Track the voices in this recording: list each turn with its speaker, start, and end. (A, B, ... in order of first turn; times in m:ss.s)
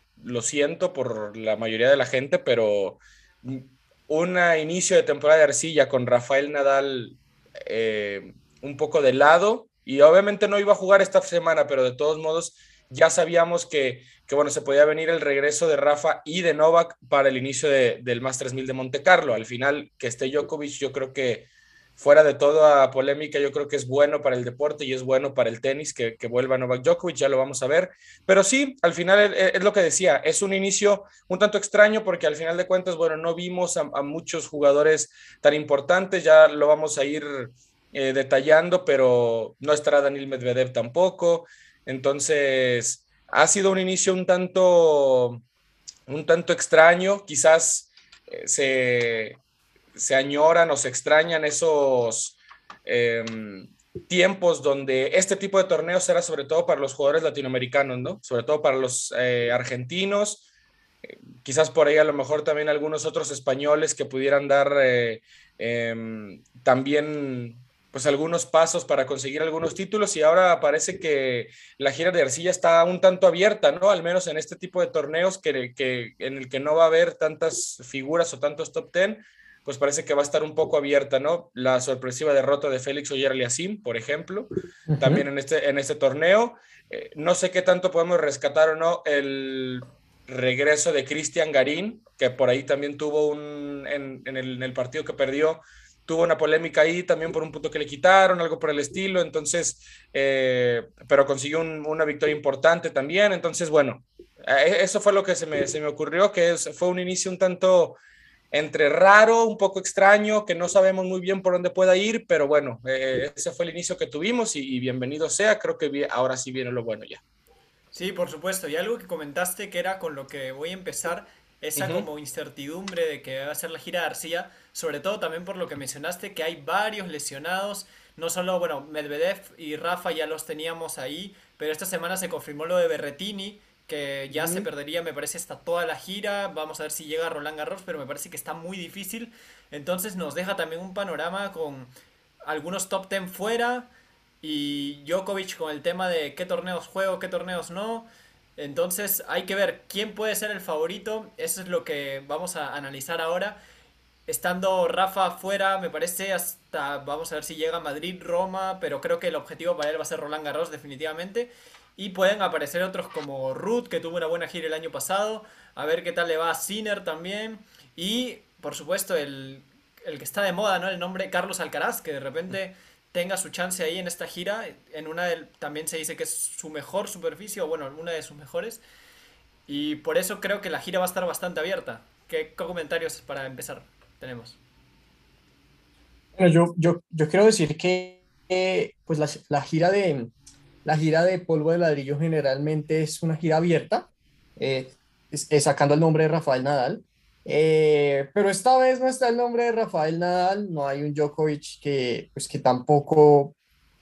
0:00.2-0:45.4 A
0:46.1-0:49.4 A
0:50.0-1:00.4 A
1:01.1-1:48.0 A
1:24.9-1:25.2 B
1:48.5-1:57.2 A
1:57.9-2:21.9 C
2:01.8-2:02.1 A
2:14.3-2:14.7 B
2:22.4-2:33.6 C
2:34.3-2:58.8 C
2:59.7-3:04.6 C
3:06.4-3:10.3 B
3:10.8-3:23.6 B